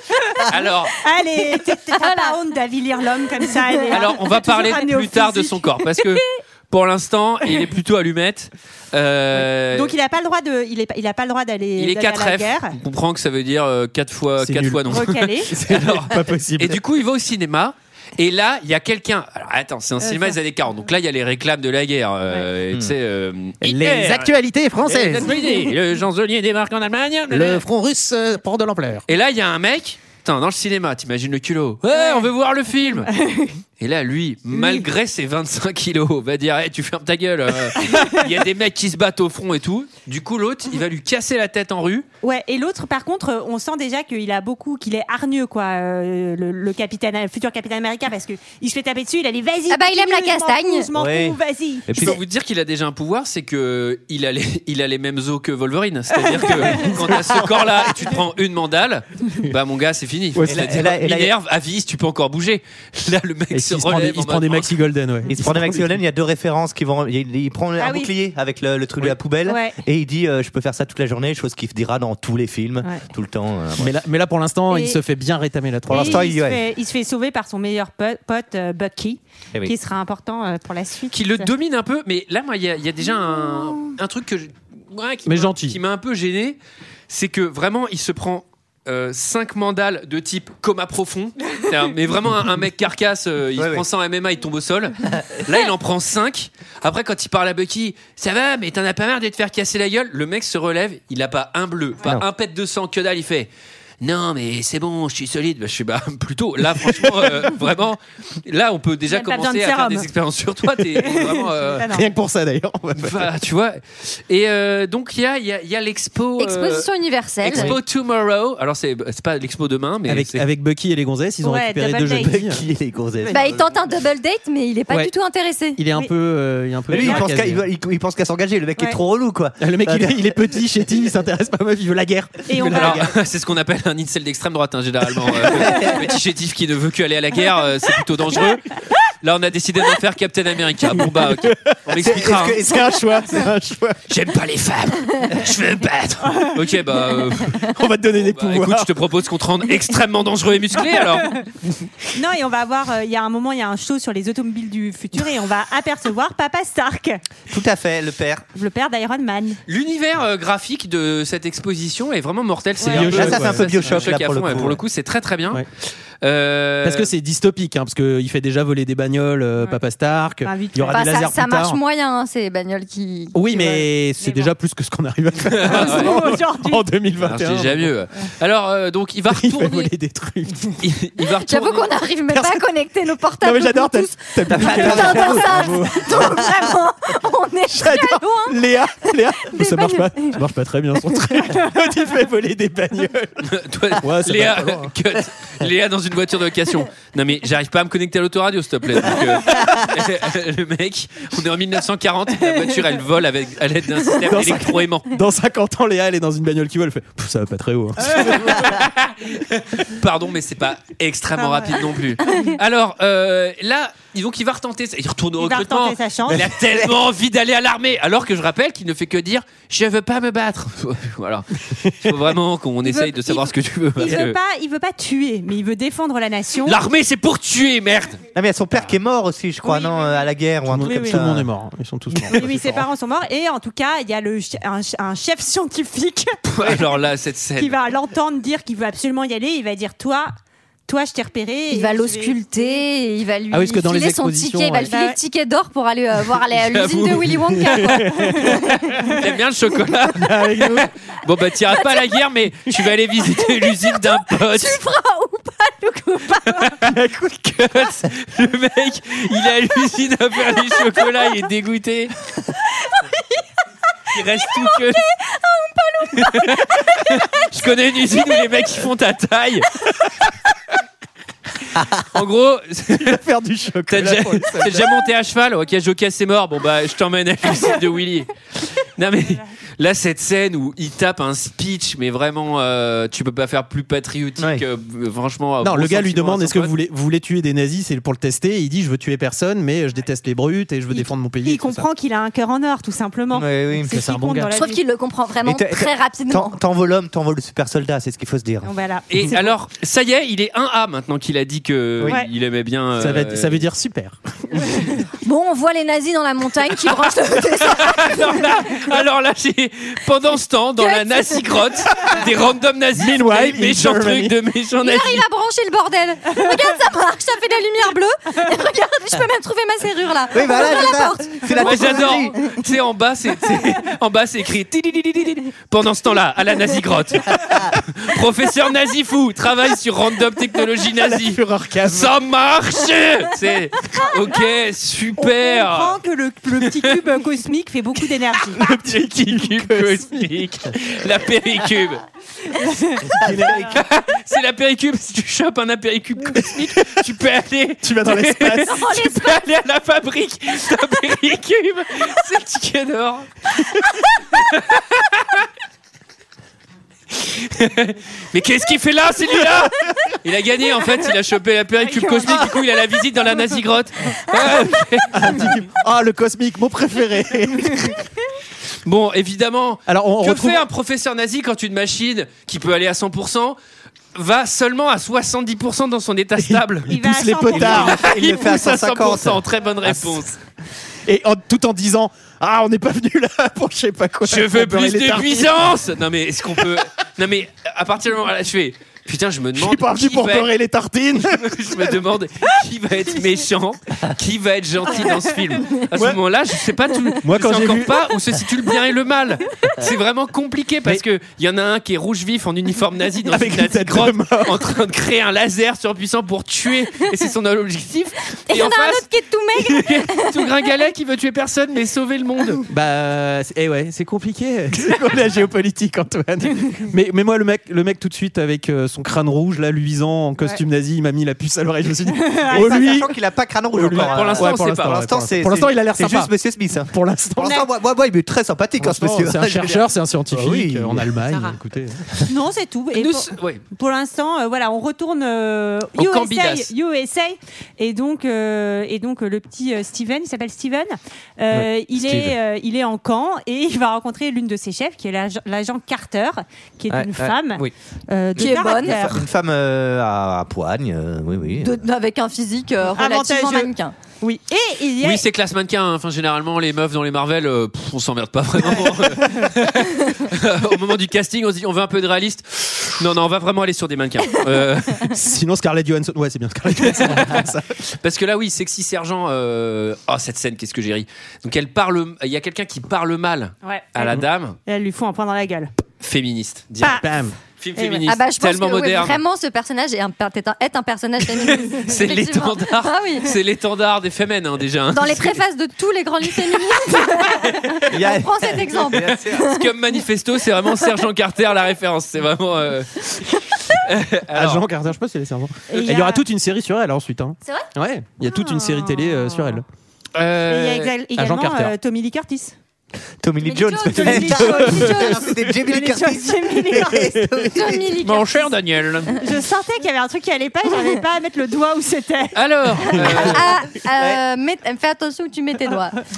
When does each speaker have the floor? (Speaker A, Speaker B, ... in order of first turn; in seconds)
Speaker A: 0.3-6.2, 9.7-12.8, 14.9-15.5, 20.0-20.4, 31.9-32.3, 33.1-33.6, 34.5-34.9, 37.8-38.3, 42.2-52.2, 67.8-68.1, 69.5-69.8, 74.7-75.0, 75.9-81.5, 83.5-84.0, 109.1-110.1, 111.0-112.1, 121.4-122.5, 126.9-127.3, 132.5-133.1, 151.0-151.4, 152.1-157.2, 158.6-159.6, 162.8-163.2, 170.4-171.4, 173.4-174.5, 175.6-176.9, 208.1-208.8, 211.4-212.6, 215.4-216.5, 222.8-226.8, 229.7-230.2, 230.8-231.2, 232.3-236.9, 237.6-240.3, 240.9-242.8, 244.9-245.2, 279.2-279.5, 290.9-294.8, 298.6-299.4, 302.1-302.3, 335.2-338.6, 342.6-343.1, 361.8-362.6, 376.9-377.9, 422.2-423.1, 427.4-427.7, 432.3-449.2, 452.9-455.2, 473.6-475.7, 476.8-477.1, 477.8-478.1, 495.7-496.2, 498.3-499.6, 500.5-502.6, 503.9-507.2, 509.2-513.2
Speaker B: 0.5-0.9, 3.9-9.9, 11.8-24.3, 24.9-27.6, 29.1-33.1, 33.8-42.1, 52.0-64.7, 81.1-86.6, 87.1-111.9, 113.0-116.9, 117.4-120.5, 132.6-138.6, 139.2-142.7, 144.1-151.4, 159.7-165.6, 166.2-167.1, 175.4-176.2, 177.2-179.9, 180.8-181.9, 193.4-205.1, 208.1-224.4, 226.7-228.2, 236.4-237.8, 246.6-247.4, 248.7-254.8, 256.5-256.9, 257.6-262.1, 264.1-265.0, 266.1-269.8, 272.1-273.2, 273.9-286.7, 299.1-303.6, 307.6-315.2, 321.6-336.0, 336.6-337.0, 339.1-342.0, 343.7-353.3, 354.3-355.5, 357.1-365.6, 368.9-373.6, 374.1-376.9, 377.7-380.4, 384.2-390.5, 391.3-409.1, 409.6-412.6, 423.9-425.0, 432.9-433.6, 436.0-436.7, 455.0-465.1, 466.9-467.5, 468.0-474.6, 476.0-477.0, 477.6-479.2, 481.2-485.4, 486.9-487.9, 488.9-494.7, 500.1-500.9, 508.0-509.2, 512.4-513.6
Speaker C: 2.0-2.4, 49.7-50.9, 116.4-117.8, 123.3-125.8, 170.9-173.3, 181.4-190.4, 241.7-248.9, 251.7-252.1, 253.3-256.7, 260.5-261.2, 262.8-263.4, 264.1-267.2, 268.0-268.7, 294.5-296.6, 305.2-308.6, 310.8-311.5, 314.8-322.3, 348.7-349.4, 408.5-410.4, 448.4-449.2, 451.6-453.9, 478.1-483.4, 484.9-489.7, 503.4-505.2, 507.5-508.5, 512.9-516.0
Speaker D: 14.4-16.8, 23.6-25.4, 27.3-29.0, 56.7-57.9, 60.4-60.8, 63.5-66.0, 73.8-76.3, 85.3-85.8, 106.9-107.5, 111.8-113.4, 117.5-117.8, 120.1-122.6, 125.8-127.6, 129.6-133.0, 135.3-135.9, 140.9-141.8, 142.6-144.0, 147.6-149.0, 162.9-164.1, 166.8-171.8, 173.3-177.9, 179.3-180.8, 182.3-182.7, 183.4-186.5, 187.7-193.5, 194.0-194.9, 199.2-199.8, 204.1-208.8, 221.8-222.3, 230.7-232.9, 243.5-244.9, 247.5-249.1, 250.1-250.9, 256.8-257.7, 272.9-275.1, 285.6-291.9, 293.9-294.6, 303.0-304.7, 312.9-314.4, 330.9-332.1, 338.6-340.3, 343.1-343.7, 346.3-347.1, 347.8-348.8, 365.1-368.0, 369.9-370.6, 376.4-377.9, 379.9-380.2, 381.1-385.7, 389.6-391.9, 395.9-396.2, 397.2-398.4, 403.3-404.8, 412.7-423.1, 423.8-426.3, 426.9-427.5, 428.8-432.2, 465.1-467.8, 477.0-477.4, 494.3-499.6, 501.1-501.7, 504.4-505.4
Speaker E: 51.0-52.2, 60.5-61.3, 65.3-73.9, 75.9-76.6, 93.6-93.8, 122.2-123.7, 126.9-130.5, 142.0-143.0, 157.5-158.4, 163.1-164.8, 184.5-185.7, 228.3-231.5, 284.4-284.6, 293.3-294.0, 295.4-298.7, 320.3-322.5, 343.2-343.7, 377.6-379.4, 422.5-431.1, 441.5-442.4, 446.9-447.7, 448.4-451.9, 487.9-489.5, 503.2-508.0, 514.0-514.2